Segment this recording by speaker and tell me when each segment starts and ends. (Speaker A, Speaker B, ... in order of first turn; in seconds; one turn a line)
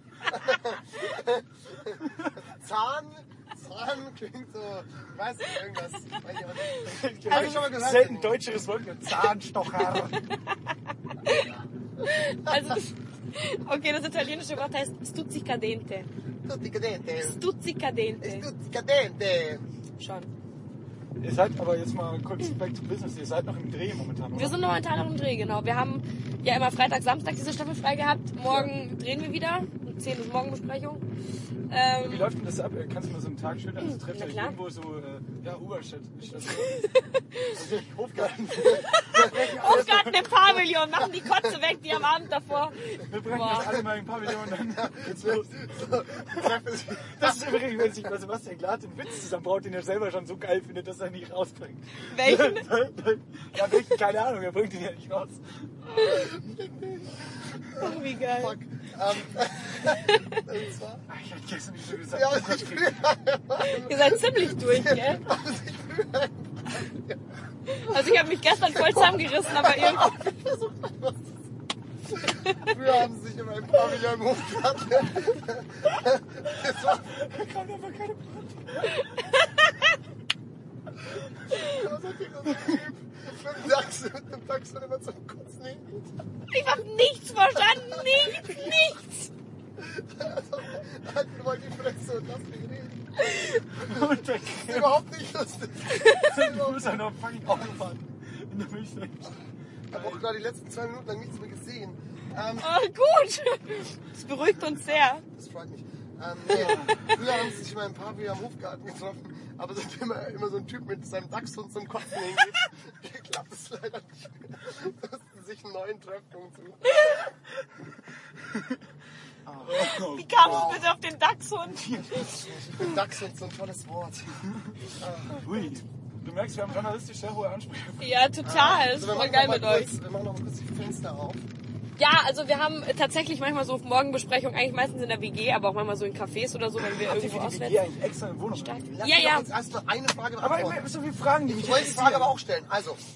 Speaker A: 0.2-8.4
Speaker B: 6.8-7.6
Speaker C: 6.8-10.2
Speaker B: 11.2-11.5
Speaker B: 12.0-16.1
Speaker A: 12.5-12.7
Speaker A: 16.4-17.4
Speaker B: 17.2-18.4
Speaker A: 18.2-19.6
Speaker B: 20.0-20.3
Speaker C: 21.2-24.6
Speaker B: 24.3-31.0
Speaker B: 31.7-32.3
Speaker C: 32.0-36.9
Speaker B: 34.1-34.5
Speaker B: 36.7-37.5
Speaker C: 37.5-40.5
Speaker B: 38.9-43.7
Speaker A: 41.2-41.5
Speaker C: 43.1-56.4
Speaker A: 44.3-47.6
Speaker B: 52.1-52.6
Speaker A: 56.0-57.2
Speaker B: 57.8-58.6
Speaker A: 58.4-61.0
Speaker B: 59.9-60.4
Speaker C: 61.1-63.0
Speaker A: 62.1-67.2
Speaker B: 63.6-65.2
Speaker B: 67.7-70.1
Speaker A: 67.9-71.4
Speaker A: 72.1-77.1
Speaker B: 72.2-72.7
Speaker C: 76.9-79.0
Speaker B: 79.0-79.7
Speaker A: 81.5-86.1
Speaker B: 86.5-89.3
Speaker A: 87.7-88.5
Speaker A: 89.8-93.2
Speaker B: 93.3-93.6
Speaker C: 93.8-95.0
Speaker A: 93.8-97.0
Speaker B: 95.9-96.2
Speaker C: 96.1-99.4
Speaker A: 99.9-102.7
Speaker C: 99.9-100.2
Speaker B: 102.6-105.2
Speaker A: 105.2-117.2
Speaker C: 106.5-107.1
Speaker C: 118.5-118.8
Speaker A: 119.5-120.9
Speaker C: 119.6-120.8
Speaker B: 120.1-122.8
Speaker C: 121.7-122.2
Speaker A: 122.3-124.3
Speaker A: 125.0-125.6
Speaker C: 125.4-128.1
Speaker B: 128.0-129.9
Speaker A: 128.4-131.4
Speaker B: 132.0-137.8
Speaker C: 136.9-139.2
Speaker B: 138.5-139.5
Speaker A: 139.0-140.8
Speaker C: 140.4-142.4
Speaker A: 141.5-143.0